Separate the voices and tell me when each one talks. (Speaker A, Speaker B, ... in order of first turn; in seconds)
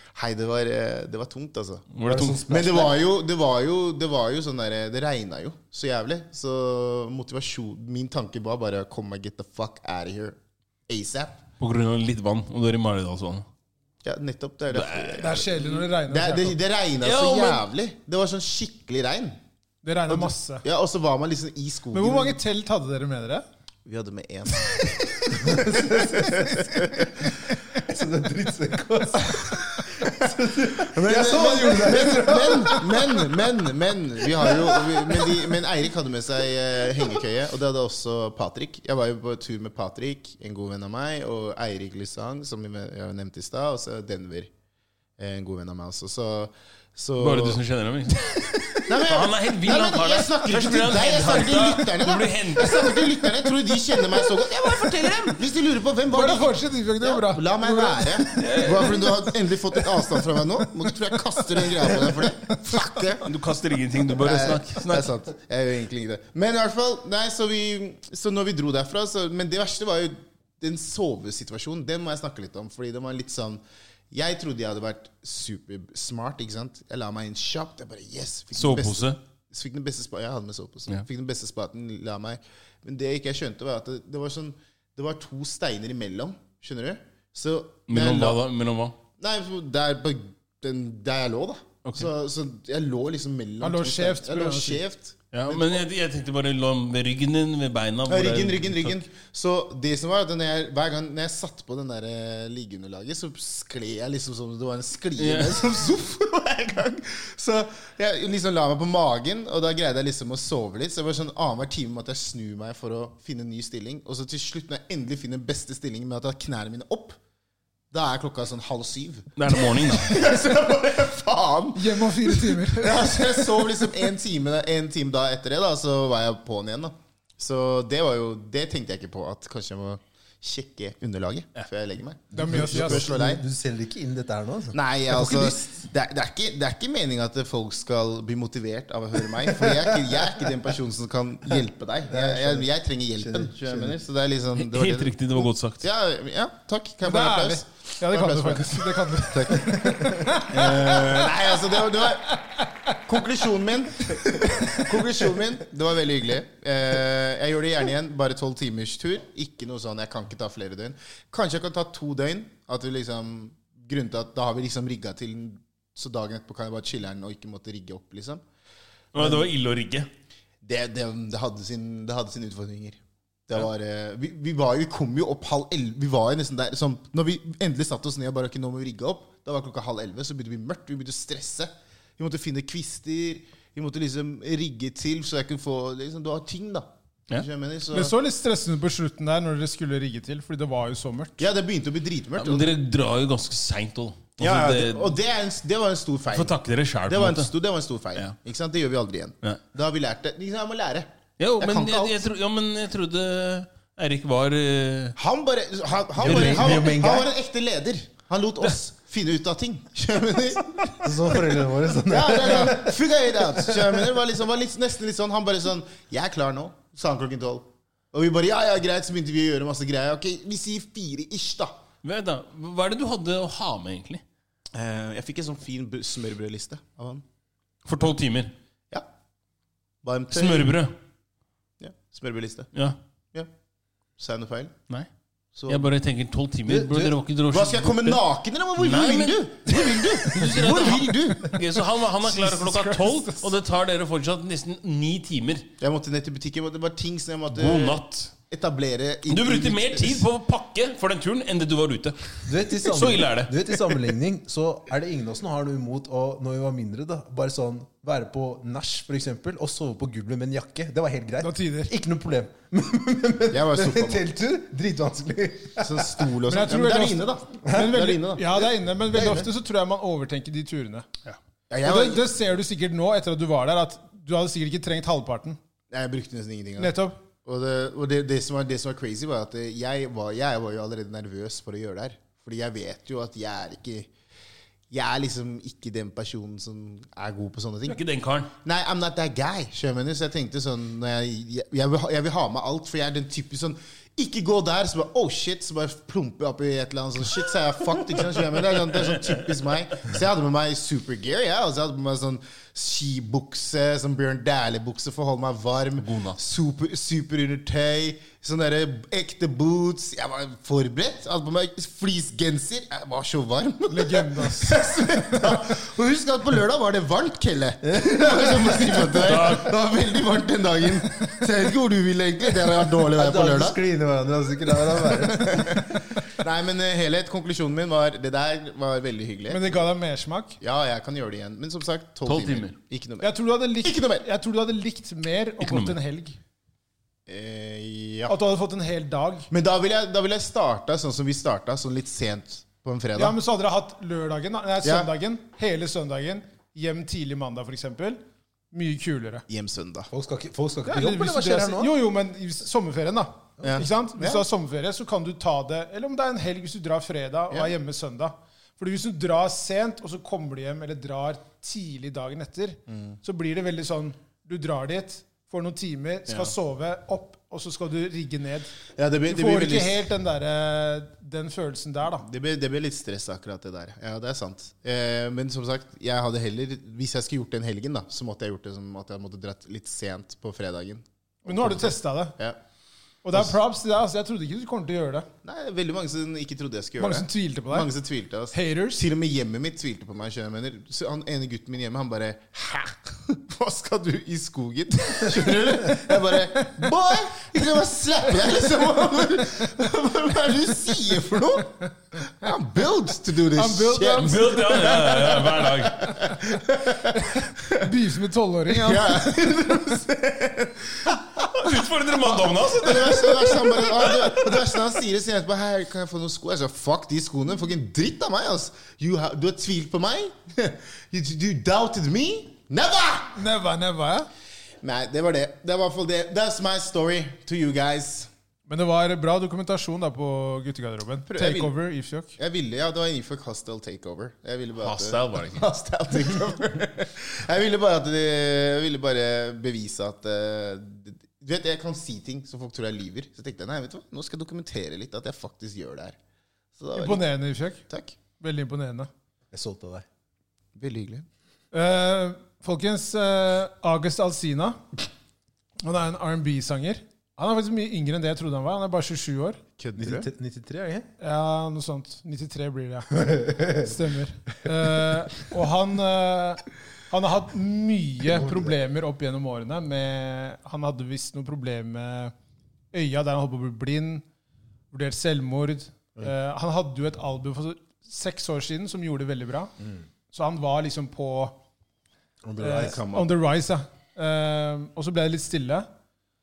Speaker A: 0.1-1.9, 2.5-11.4, 14.0-19.4, 20.1-22.4, 23.9-27.3, 29.3-44.5, 45.2-47.6, 48.9-63.3, 64.1-88.4, 89.2-95.8, 98.1-117.2, 117.9-133.4, 134.7-152.4, 153.0-168.4, 169.2-169.5, 170.6-188.1, 191.4-192.8, 194.4-196.5, 197.1-201.1, 201.6-202.2, 205.2-221.8, 224.7-227.2, 230.0-230.8, 231.8-232.7, 234.2-234.7, 235.6-235.9, 237.5-241.6, 245.8-250.3, 263.5-264.2, 265.8-269.4, 271.7-272.3, 275.9-284.1, 284.9-288.0, 288.6-323.8, 325.1-329.8, 330.6-333.3, 333.8-334.2, 337.3-338.3, 339.5-343.4, 344.8-345.1, 349.5-350.1, 353.6-354.4, 362.9-363.2, 369.0-370.1, 372.2-382.6, 385.4-407.9, 408.7-411.4, 412.7-423.4, 424.8-428.3, 431.3-431.8, 432.4-446.2, 446.8-447.2, 447.9-448.2, 450.8-451.3, 459.8-460.3, 482.6-483.3
Speaker B: 1.9-2.4, 11.6-13.4, 14.7-15.5, 17.0-17.6, 47.2-52.9, 54.7-55.3, 58.4-59.1, 63.2-65.1, 78.5-79.2, 87.9-89.0, 95.3-99.0, 105.2-105.6, 119.4-120.2, 144.6-145.8, 150.6-151.1, 169.1-170.1, 192.4-195.1, 196.3-197.5, 201.4-205.2, 206.2-206.9, 222.0-224.2, 227.8-228.5, 230.3-230.9, 235.7-238.2, 238.8-245.7, 247.5-248.3, 249.3-254.0, 287.9-288.5, 298.9-299.5, 306.0-306.4, 319.2-319.8, 332.3-332.8, 335.6-336.0, 366.3-366.5, 404.2-406.2, 411.4-414.8, 434.8-435.6
Speaker C: 2.0-3.0, 25.3-33.5, 34.3-35.5, 132.3-135.7, 139.4-140.4, 142.1-143.9, 149.7-150.0, 206.2-207.3, 211.0-214.1, 236.7-237.1, 252.5-266.3, 267.7-268.0, 269.1-269.5, 317.8-319.5, 323.1-325.9, 350.1-351.9, 449.5-450.1, 460.0-461.1, 463.3-463.9, 468.2-468.7, 482.4-483.0
Speaker D: 15.2-16.6, 19.8-20.6, 21.9-23.4, 56.1-62.3, 93.6-94.8, 121.8-123.6, 132.3-133.1, 147.0-151.3, 187.9-191.4, 242.2-243.5, 261.4-261.9, 266.4-271.1, 271.8-275.6, 276.8-277.1, 313.9-314.8, 329.5-330.6, 333.2-336.4, 338.3-339.5, 343.2-348.2, 348.7-349.4, 350.9-368.7, 369.3-372.3, 381.5-382.4, 383.2-385.3, 387.0-387.9, 388.5-389.0, 403.6-405.5, 407.8-409.5, 423.4-424.3, 428.7-432.3, 447.0-447.8, 448.4-449.1, 451.7-454.9, 455.8-459.6, 461.2-472.3, 472.9-474.2, 474.9-479.7, 480.3-481.6, 482.6-485.9